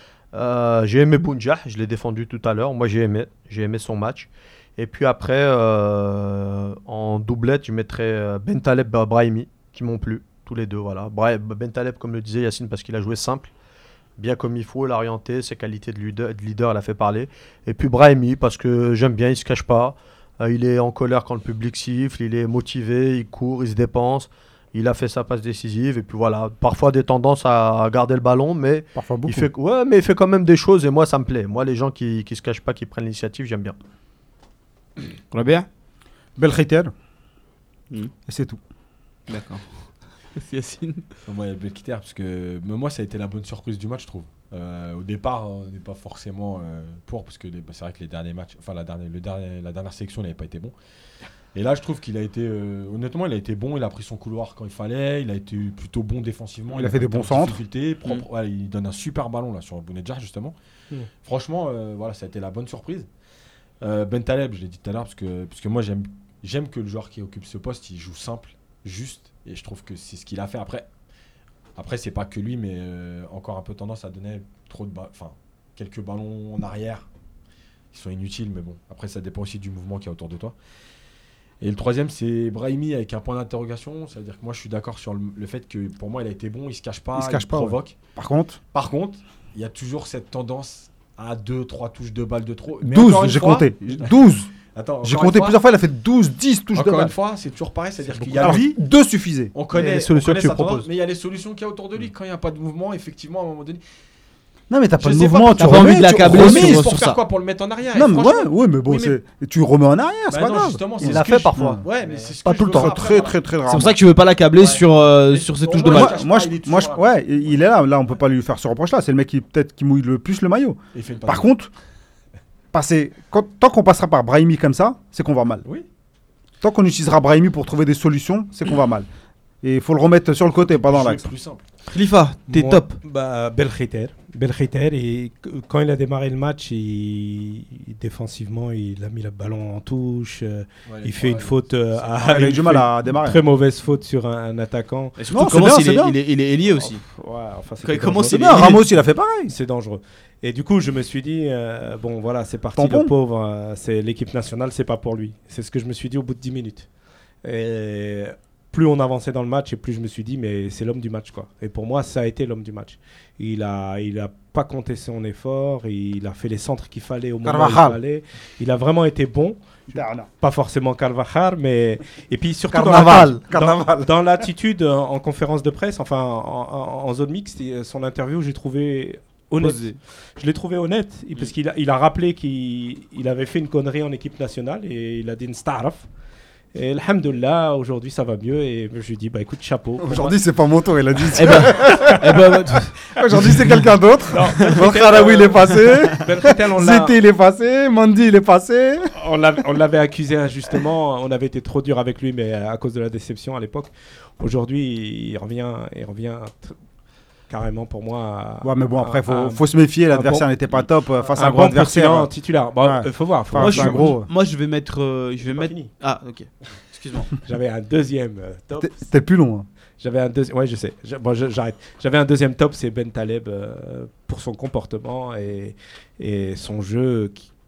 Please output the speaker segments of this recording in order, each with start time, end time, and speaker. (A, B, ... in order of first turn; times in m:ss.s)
0:00.3-0:13.5 A
0:14.2-0:33.8 A
0:28.9-0:29.5 B
0:35.3-0:35.7 C
0:36.4-0:36.9 B
0:38.2-0:38.6 B
0:39.3-0:39.6 C
0:40.4-0:41.0 C
0:41.2-0:50.7 D
0:51.5-1:00.5 D
0:56.7-0:57.6 B
1:01.2-1:03.1 D
1:03.8-1:10.9 D
1:11.8-1:17.1 D
1:17.9-1:20.5 D
1:21.6-1:28.0 D
1:27.1-1:28.6 B
1:28.7-1:34.1 D
1:32.8-1:34.5 B
1:34.7-1:35.6 D
1:35.0-1:37.1 B
1:36.7-1:38.8 D
1:38.2-1:39.5 B
1:39.5-1:43.8 D
1:39.7-1:40.9 A
1:44.7-1:46.9 B
1:45.0-1:49.2 D
1:45.6-1:47.2 C
1:47.9-1:51.8 B
1:50.3-1:53.5 D
1:51.0-1:51.8 A
1:52.4-1:53.0 A
1:52.6-1:54.0 B
1:53.6-1:56.2 C
1:54.5-1:57.6 D
1:55.8-2:01.7 B
2:00.9-2:01.5 D
2:02.7-2:05.7 B
2:06.6-2:09.1 B
2:09.6-2:11.3 B
2:10.6-2:11.6 D
2:11.9-2:13.0 C
2:12.5-2:25.2 E
2:20.9-2:22.4 D
2:22.2-2:23.4 B
2:25.2-2:27.0 C
2:25.3-2:26.1 B
2:26.8-2:28.9 E
2:27.8-2:28.8 C
2:28.3-2:29.5 B
2:29.4-2:36.9 E
2:32.7-2:33.1 B
2:37.4-3:06.0 E
2:47.4-2:48.0 B
2:49.9-2:50.3 B
2:52.7-2:54.1 B
2:52.9-2:53.4 A
2:59.6-2:59.9 C
3:06.7-3:10.4 E
3:10.0-3:19.1 B
3:11.3-3:12.9 C
3:11.7-3:12.2 E
3:14.3-3:17.2 E
3:14.6-3:14.9 C
3:19.1-3:26.8 E
3:27.5-3:34.1 E
3:28.6-3:32.3 B
3:32.8-3:34.3 B
3:33.6-3:37.3 C
3:35.5-3:35.9 E
3:37.4-3:39.0 E
3:38.8-3:39.7 B
3:40.0-3:47.5 E